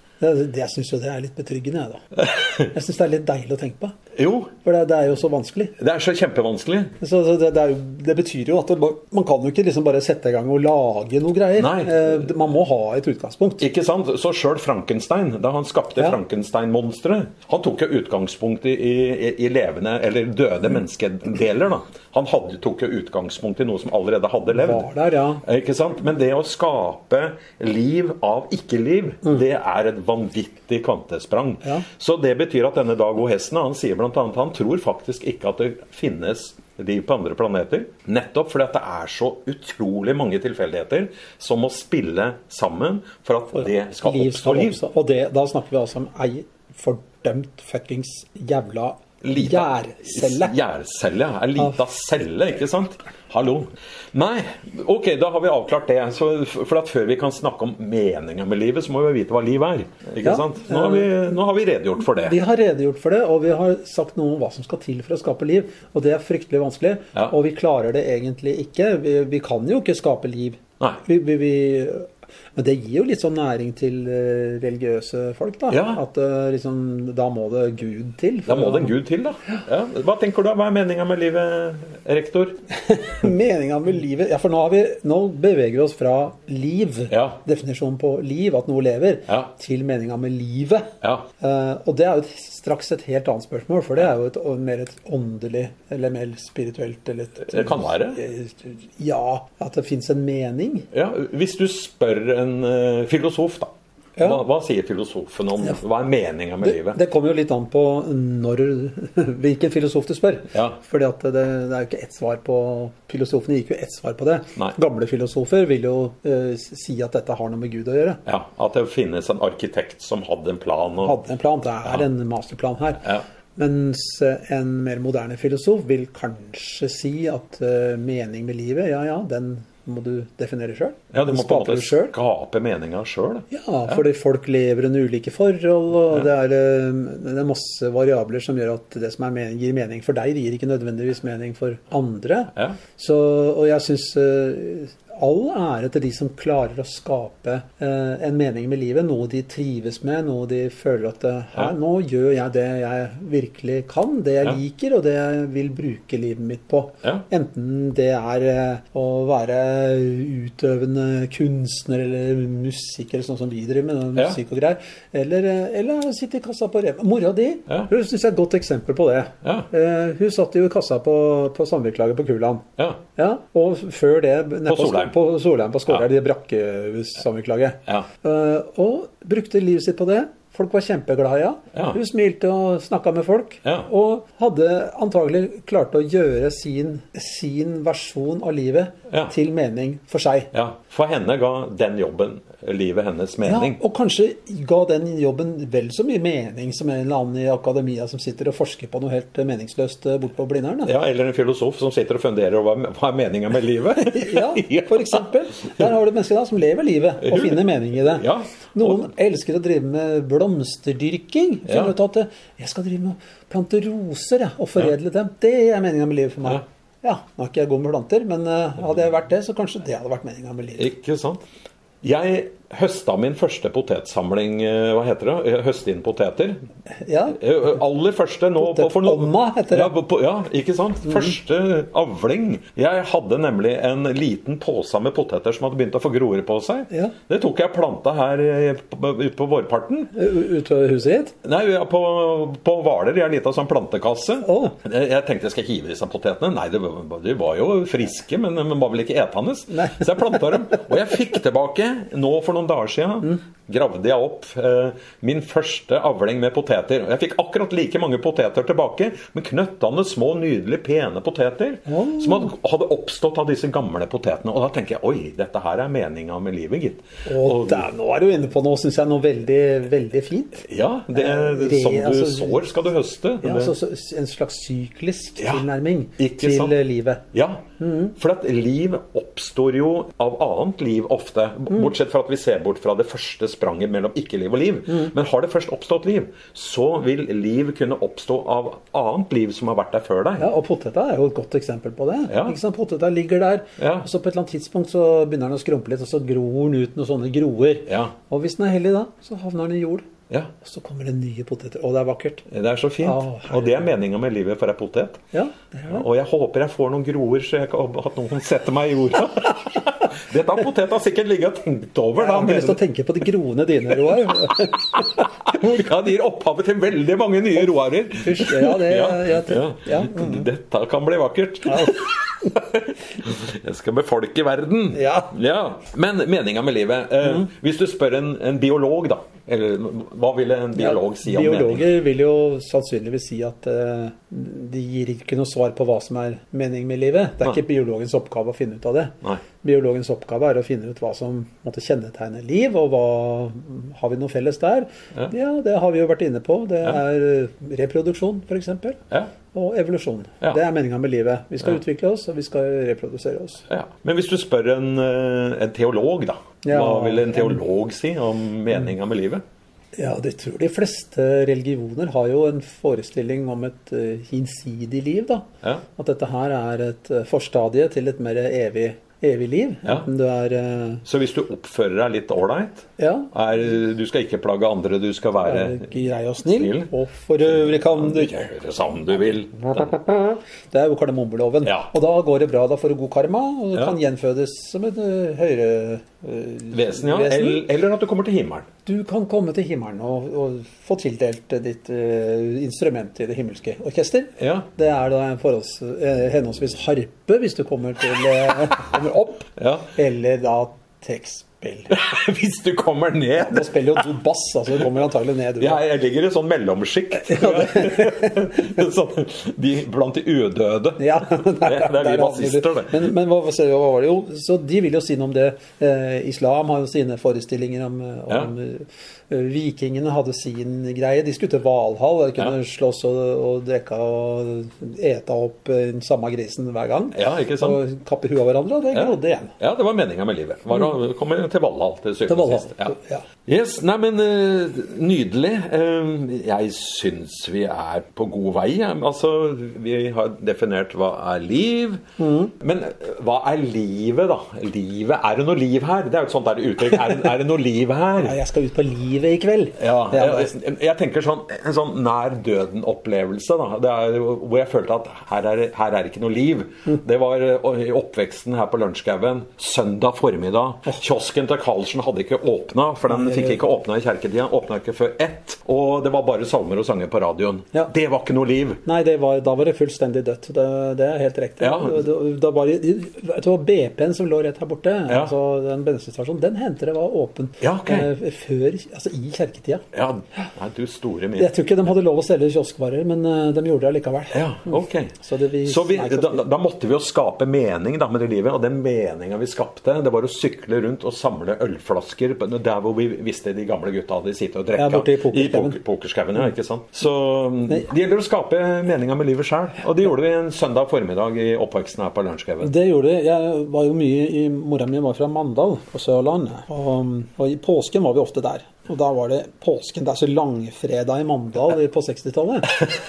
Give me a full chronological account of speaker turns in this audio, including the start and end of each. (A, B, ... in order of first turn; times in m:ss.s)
0:00.2-0:02.0 A
0:02.2-0:02.7 B
0:02.6-0:04.0 A
0:04.2-0:04.5 B
0:04.6-0:05.8 A
0:05.8-0:06.9 B
0:07.0-0:13.6 A
0:11.6-0:12.3 B
0:13.6-0:24.9 B
0:24.5-0:25.4 A
0:25.4-0:44.8 B
0:43.5-0:50.6 A
0:49.2-1:02.4 B
1:00.2-1:01.1 A
1:02.2-1:18.9 A
1:15.7-1:16.0 B
1:18.5-1:22.6 B
1:22.8-1:40.9 A
1:27.1-1:27.4 B
1:31.0-1:31.3 B
1:37.4-1:38.2 B
1:40.9-1:47.0 B
1:44.2-1:44.4 A
1:46.6-1:58.2 A
1:58.2-2:01.2 B
2:01.0-2:12.1 A
2:11.1-2:14.0 B
2:13.5-3:10.5 A
2:49.4-2:49.7 B
2:54.7-2:55.1 B
3:10.5-3:13.8 B
3:13.4-3:20.9 A
3:20.8-3:25.2 B
3:24.0-3:40.9 A
3:27.2-3:29.0 B
3:31.7-3:31.9 B
3:40.8-3:41.4 B
3:42.0-3:46.6 B
3:47.0-3:47.4 A
3:47.3-4:00.1 B
3:48.6-3:49.9 A
4:00.1-4:01.3 A
4:01.4-4:27.9 B
4:04.4-4:04.7 A
4:09.7-4:10.5 A
4:21.9-4:22.5 A
4:27.2-4:32.6 A
4:30.6-4:33.7 B
4:33.4-4:37.2 A
4:35.4-4:35.6 B
4:36.2-4:36.8 B
4:37.3-4:50.5 B
4:37.8-4:38.2 A
4:50.4-5:00.0 A
4:52.3-4:52.6 B
4:53.8-4:54.0 B
4:57.9-4:58.1 B
5:00.6-5:02.5 A
5:02.5-5:05.2 B
5:03.0-5:03.8 A
5:05.3-5:06.0 A
5:05.9-5:12.8 B
5:12.2-5:15.9 A
5:15.0-5:31.9 B
5:18.2-5:20.4 A
5:21.7-5:22.1 A
5:24.9-5:25.3 A
5:30.8-5:49.0 A
5:49.5-5:53.6 A
5:53.7-5:59.4 B
5:56.6-5:57.6 A
6:00.0-6:11.0 A
6:11.0-6:15.9 B
6:13.0-6:13.3 A
6:15.4-6:18.4 A
6:16.5-6:16.9 B
6:17.5-6:20.0 B
6:19.9-6:27.6 A
6:21.6-6:21.9 B
6:26.7-6:28.7 B
6:28.8-6:41.9 A
6:34.4-6:34.7 B
6:39.6-6:39.9 B
6:41.9-6:44.0 B
6:43.4-6:45.8 A
6:45.6-6:53.0 B
6:47.2-6:48.7 A
6:51.0-7:09.5 A
7:07.1-7:07.8 B
7:08.9-7:12.9 B
7:12.3-7:13.2 A
7:13.4-7:22.0 B
7:22.2-7:22.5 A
7:22.5-7:28.4 B
7:28.2-7:30.5 A
7:29.8-7:48.8 B
7:43.1-7:43.6 A
7:48.8-7:59.8 A
7:51.6-7:52.0 B
7:57.6-7:58.1 B
7:59.9-8:01.5 B
8:01.4-8:06.4 A
8:04.3-8:05.1 B
8:05.6-8:22.7 B
8:14.8-8:15.8 A
8:22.6-8:32.9 A